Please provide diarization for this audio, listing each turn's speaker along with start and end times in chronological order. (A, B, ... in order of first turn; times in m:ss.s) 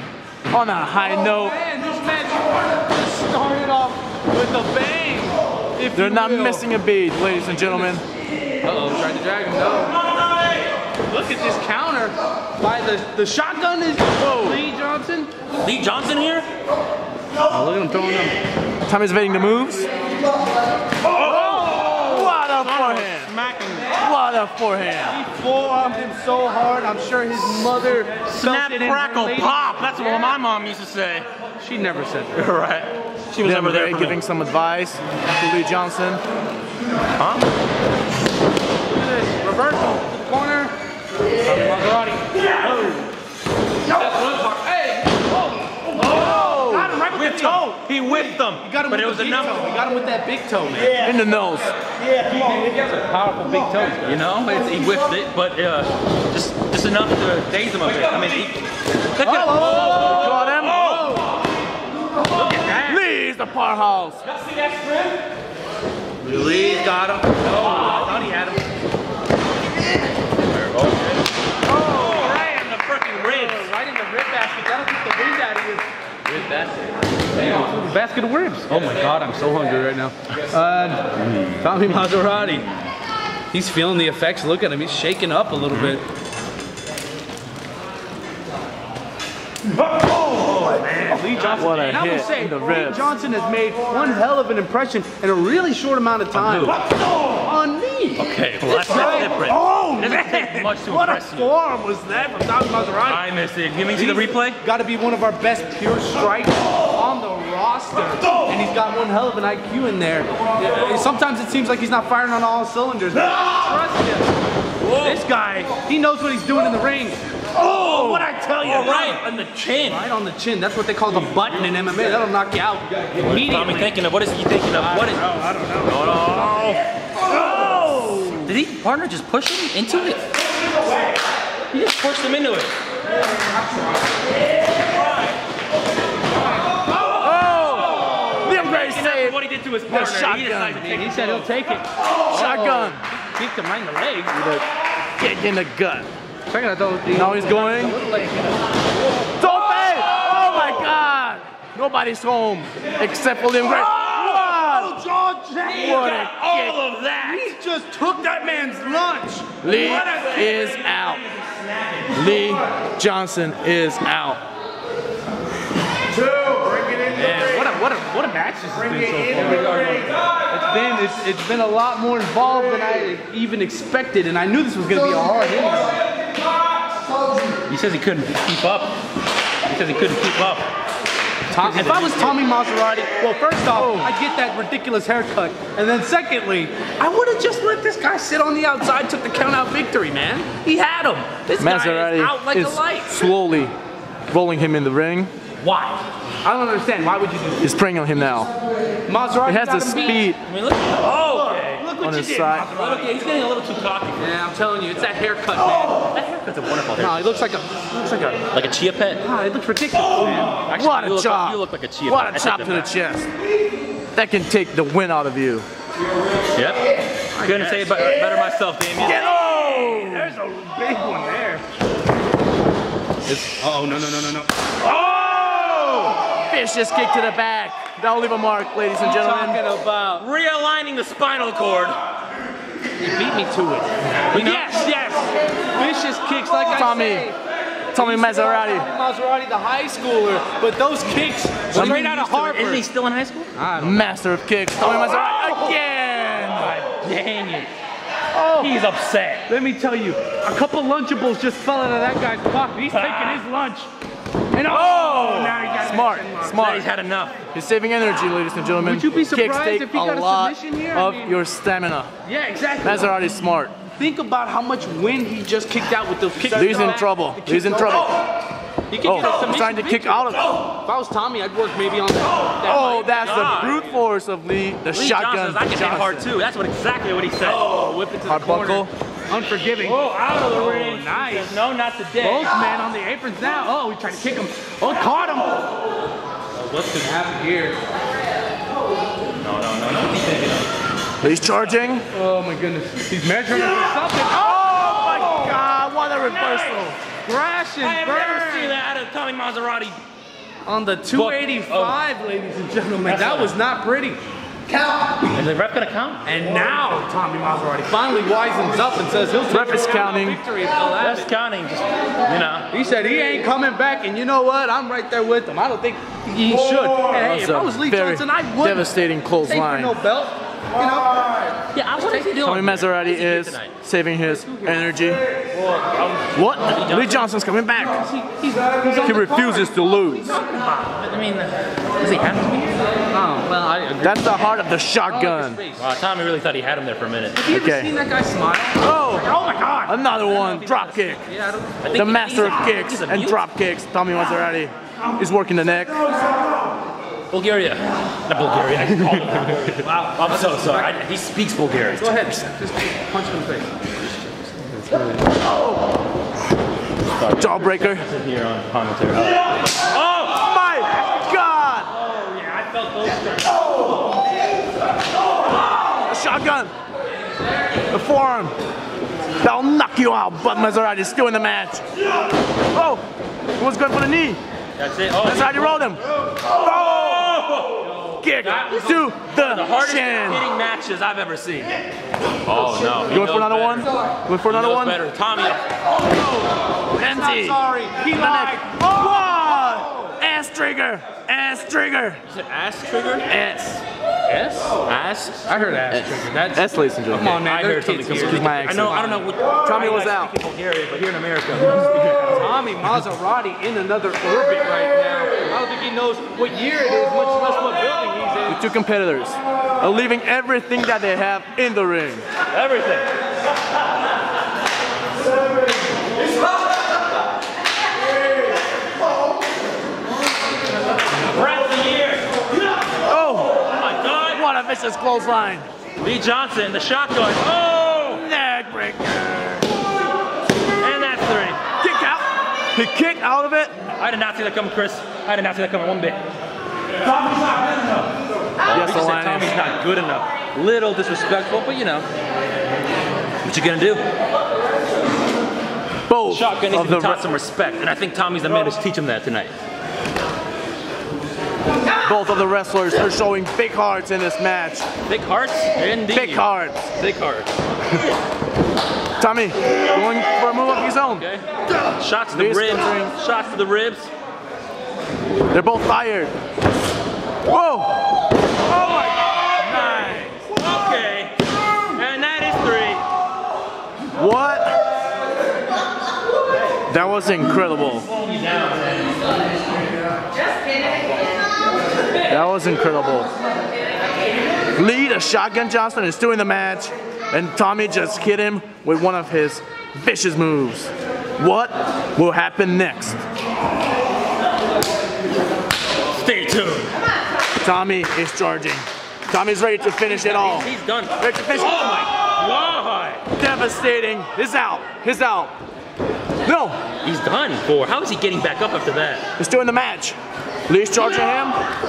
0:00.5-0:01.6 A
0:01.0-0:06.7 B
0:05.9-0:08.0 A
0:07.5-0:07.9 B
0:08.6-0:10.0 B
0:11.1-0:15.3 B
0:14.2-0:14.6 A
0:15.6-0:16.5 C
0:17.5-0:18.4 B
0:18.8-0:19.9 A
0:21.0-0:24.0 C
0:21.2-0:23.3 A
0:23.9-0:25.2 A
0:25.1-0:29.8 B
0:28.3-0:31.3 C
0:31.6-0:32.4 B
0:32.4-0:34.2 C
0:33.4-0:36.2 A
0:37.2-0:37.5 C
0:38.9-0:40.7 B
0:41.4-0:42.8 B
0:43.9-0:51.0 B
0:46.0-0:46.5 C
0:46.0-0:47.0 A
0:47.1-0:49.7 C
0:51.0-0:51.7 A
0:52.2-0:54.2 B
0:54.0-0:58.6 C
0:59.2-1:01.2 C
0:59.2-1:00.9 A
0:59.2-1:01.3 B
1:02.3-1:03.0 B
1:02.5-1:02.7 C
1:02.7-1:04.2 A
1:04.6-1:04.9 B
1:06.2-1:08.6 B
1:10.5-1:11.2 C
1:11.7-1:12.4 B
1:11.8-1:13.7 C
1:13.1-1:15.9 B
1:16.3-1:16.9 C
1:17.4-1:21.0 B
1:21.6-1:22.7 B
1:23.5-1:26.0 B
1:30.5-1:43.3 B
1:30.8-1:32.2 C
1:31.6-1:33.1 A
1:36.4-1:36.8 C
1:38.2-1:41.5 C
1:43.0-1:44.6 C
1:43.9-1:54.3 B
1:54.8-1:55.2 C
1:55.0-1:59.2 B
1:57.6-2:00.1 C
1:59.8-2:03.9 B
2:03.2-2:05.2 C
2:04.8-2:06.5 B
2:05.8-2:06.8 C
2:07.5-2:08.4 B
2:08.4-2:10.2 C
2:11.7-2:12.7 C
2:17.2-2:20.9 A
2:18.3-2:21.6 C
2:20.8-2:24.4 B
2:22.2-2:23.0 A
2:24.3-2:24.6 A
2:25.2-2:26.1 A
2:26.5-2:28.5 B
2:27.1-2:28.0 A
2:29.4-2:35.0 A
2:33.7-2:36.0 B
2:35.7-2:37.5 C
2:35.7-2:36.8 A
2:37.2-2:40.3 B
2:39.6-2:41.2 A
2:40.1-2:40.5 C
2:41.4-2:42.1 C
2:42.1-2:44.4 A
2:47.1-2:56.0 B
2:49.5-2:50.0 C
2:57.7-2:58.9 C
2:59.7-3:00.7 C
3:01.5-3:13.2 B
3:01.6-3:02.4 C
3:03.7-3:04.1 A
3:11.6-3:13.7 A
3:14.3-3:15.3 A
3:15.6-3:17.7 B
3:17.6-3:18.5 A
3:19.1-3:20.3 B
3:19.5-3:20.4 A
3:20.5-3:24.3 C
3:21.3-3:23.1 B
3:22.0-3:22.7 A
3:24.2-3:26.0 B
3:26.1-3:27.4 C
3:27.0-3:28.4 B
3:28.5-3:29.2 C
3:29.2-3:30.6 B
3:30.7-3:32.9 C
3:30.8-3:33.3 A
3:34.1-3:35.7 A
3:36.5-3:36.8 C
3:37.4-3:39.3 C
3:37.4-3:38.1 B
3:39.0-3:40.4 A
3:39.2-3:41.6 B
3:43.2-3:44.5 B
3:46.5-3:49.6 A
3:49.0-3:50.2 B
3:50.2-3:52.0 C
3:53.0-3:57.4 B
3:54.3-3:55.0 C
3:56.7-3:57.3 A
3:57.9-3:58.9 A
3:57.9-4:02.8 B
4:01.7-4:03.5 C
4:01.7-4:02.1 A
4:03.6-4:04.1 B
4:03.8-4:06.8 A
4:06.5-4:07.7 C
4:08.3-4:08.7 B
4:08.6-4:09.5 C
4:09.5-4:13.9 B
4:12.9-4:13.5 C
4:14.5-4:16.6 B
4:14.7-4:15.8 C
4:15.7-4:16.8 A
4:16.5-4:17.4 C
4:17.5-4:22.1 A
4:18.8-4:21.4 B
4:22.2-4:23.2 B
4:22.8-4:23.7 A
4:24.0-4:28.2 B
4:26.5-4:28.2 A
4:28.9-4:33.5 B
4:29.0-4:30.5 A
4:32.6-4:36.3 A
4:32.9-4:33.9 C
4:34.9-4:37.6 C
4:37.4-4:41.6 B
4:38.3-4:38.9 A
4:39.8-4:42.6 C
4:42.2-4:45.6 B
4:46.6-4:47.8 B
4:49.4-4:50.6 C
4:51.2-4:52.0 A
4:51.3-4:51.8 C
4:52.1-4:55.6 B
4:54.3-4:57.0 A
4:56.3-4:56.9 C
4:57.2-4:58.8 B
4:57.8-5:00.0 C
5:00.6-5:04.2 B
5:01.1-5:02.0 C
5:03.0-5:03.6 C
5:05.3-5:06.2 C
5:06.2-5:11.3 B
5:09.5-5:10.4 A
5:10.8-5:12.7 C
5:12.7-5:18.9 B
5:17.1-5:20.0 A
5:19.4-5:21.4 B
5:21.7-5:23.7 C
5:22.4-5:25.2 A
5:24.2-5:24.9 B
5:25.6-5:27.3 C
5:26.3-5:28.0 A
5:28.0-5:29.7 B
5:29.0-5:30.3 A
5:30.3-5:32.9 C
5:33.1-5:34.6 B
5:34.0-5:35.6 A
5:35.1-5:35.9 B
5:35.8-5:37.4 C
5:37.4-5:39.9 B
5:37.5-5:37.9 A
5:38.8-5:41.2 A
5:40.1-5:41.2 C
5:41.3-5:41.8 B
5:41.8-5:43.4 C
5:41.9-5:46.0 A
5:47.3-5:52.3 C
5:50.2-5:50.9 B
5:52.0-5:53.9 B
5:54.6-5:55.0 B
5:57.1-6:00.4 C
5:57.4-5:58.1 A
6:00.3-6:01.9 A
6:02.0-6:03.8 B
6:06.0-6:06.7 A
6:07.9-6:08.5 A
6:09.4-6:11.8 A
6:12.7-6:13.0 A
6:13.6-6:14.4 A
6:14.8-6:16.0 C
6:15.2-6:16.0 A
6:16.6-6:17.9 C
6:18.1-6:19.1 B
6:18.2-6:20.5 A
6:18.8-6:21.7 C
6:22.4-6:23.9 C
6:23.0-6:25.0 A
6:24.4-6:25.6 C
6:26.9-6:28.8 B
6:27.0-6:32.2 A
6:32.3-6:33.3 C
6:33.3-6:33.8 A
6:34.3-6:34.7 B
6:34.9-6:35.4 C
6:35.5-6:39.3 B
6:36.5-6:37.4 A
6:37.4-6:42.7 C
6:38.1-6:39.0 A
6:39.6-6:40.3 A
6:42.2-6:48.6 B
6:48.5-6:52.3 A
6:52.5-6:53.1 C
7:01.2-7:02.3 C
7:03.1-7:03.6 A
7:03.6-7:04.4 C
7:04.3-7:05.7 A
7:06.0-7:08.2 C
7:08.2-7:09.7 A
7:10.8-7:11.6 C
7:11.8-7:13.7 A
7:14.0-7:16.2 C
7:17.1-7:18.1 C
7:18.6-7:22.1 C
7:18.7-7:19.5 A
7:23.4-7:24.0 C
7:26.1-7:27.2 A
7:26.3-7:29.5 C
7:32.0-7:34.9 A
7:35.1-7:37.5 C
7:36.1-7:36.8 A
7:39.2-7:41.2 A
7:41.0-7:44.1 C
7:42.3-7:43.1 A
7:45.5-7:46.3 A
7:47.5-7:48.1 A
7:48.7-7:51.4 C
7:48.8-7:49.2 A
7:49.8-7:50.3 A
7:51.9-7:53.0 C
7:54.2-7:54.8 A
7:56.9-7:58.1 A
7:58.1-7:59.0 C
8:02.3-8:03.3 A
8:04.8-8:13.2 A
8:16.2-8:16.9 C
8:17.6-8:22.0 A
8:20.0-8:23.2 C
8:23.4-8:25.5 A
8:26.4-8:26.8 A
8:27.0-8:29.2 C
8:29.4-8:30.2 A
8:30.7-8:31.6 A